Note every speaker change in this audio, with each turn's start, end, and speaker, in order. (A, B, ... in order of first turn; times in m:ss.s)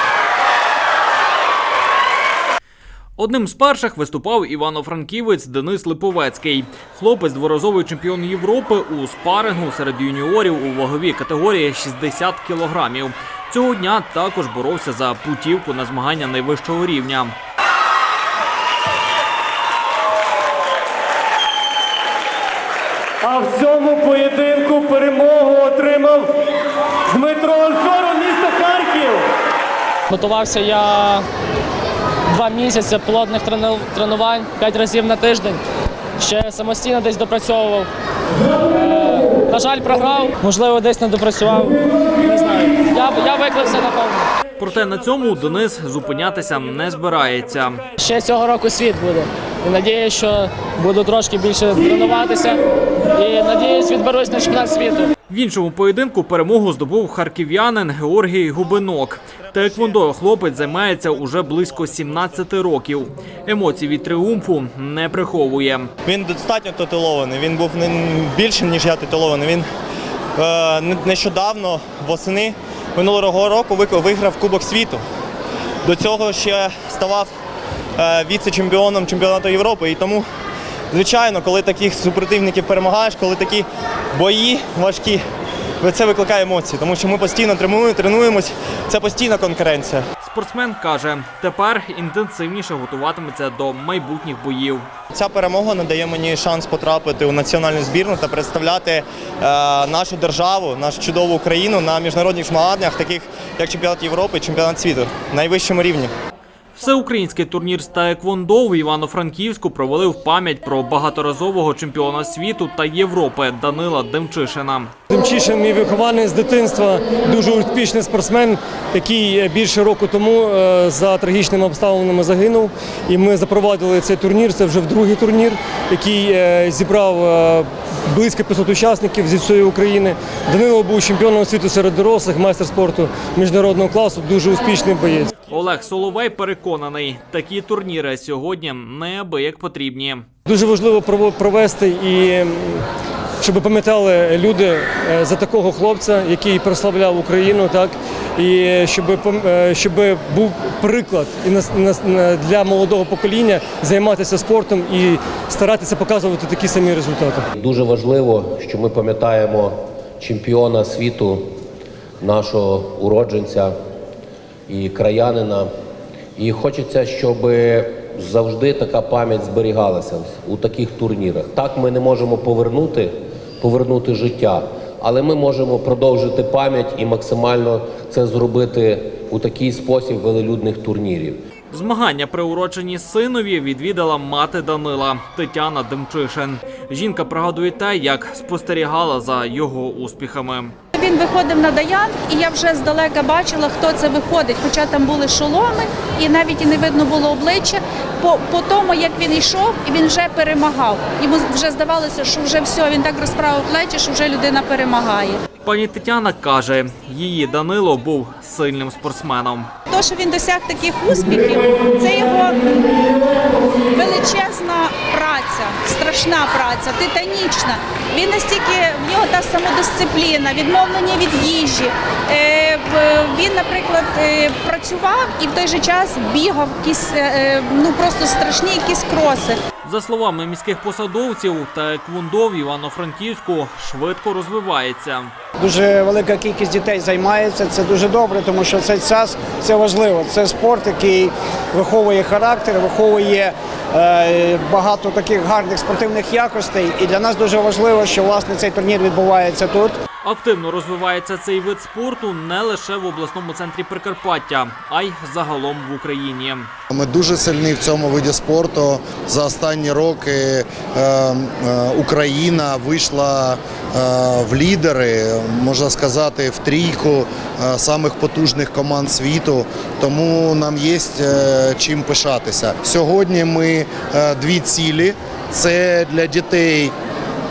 0:03.2-0:17.4 A
0:23.2-0:26.2 B
0:27.1-0:29.2 B
0:30.1-0:31.3 C
0:32.3-0:35.6 C
0:36.2-0:37.9 C
0:38.5-0:44.3 C
0:44.6-0:47.8 A
0:48.0-0:52.6 C
0:53.1-0:55.1 C
0:55.3-1:05.9 A
1:06.0-1:09.7 D
1:10.4-1:15.0 D
1:15.8-1:17.3 D
1:18.0-1:20.3 D
1:20.9-1:25.2 D
1:25.8-1:30.0 D
1:30.2-1:34.9 A
1:35.1-1:46.1 D
1:46.7-1:54.9 A
1:55.1-2:15.3 B
2:15.5-2:20.2 A
2:20.4-2:22.8 B
2:23.4-2:37.4 B
2:37.5-2:41.6 E
2:42.2-2:43.7 E
2:44.7-2:45.7 E
2:46.4-3:01.4 E
3:01.7-3:10.7 A
3:10.9-3:25.4 F
3:25.6-3:29.7 A
3:29.9-3:49.6 F
3:49.8-3:55.3 A
3:55.6-4:10.0 G
4:10.2-4:16.7 A
4:16.9-4:36.9 H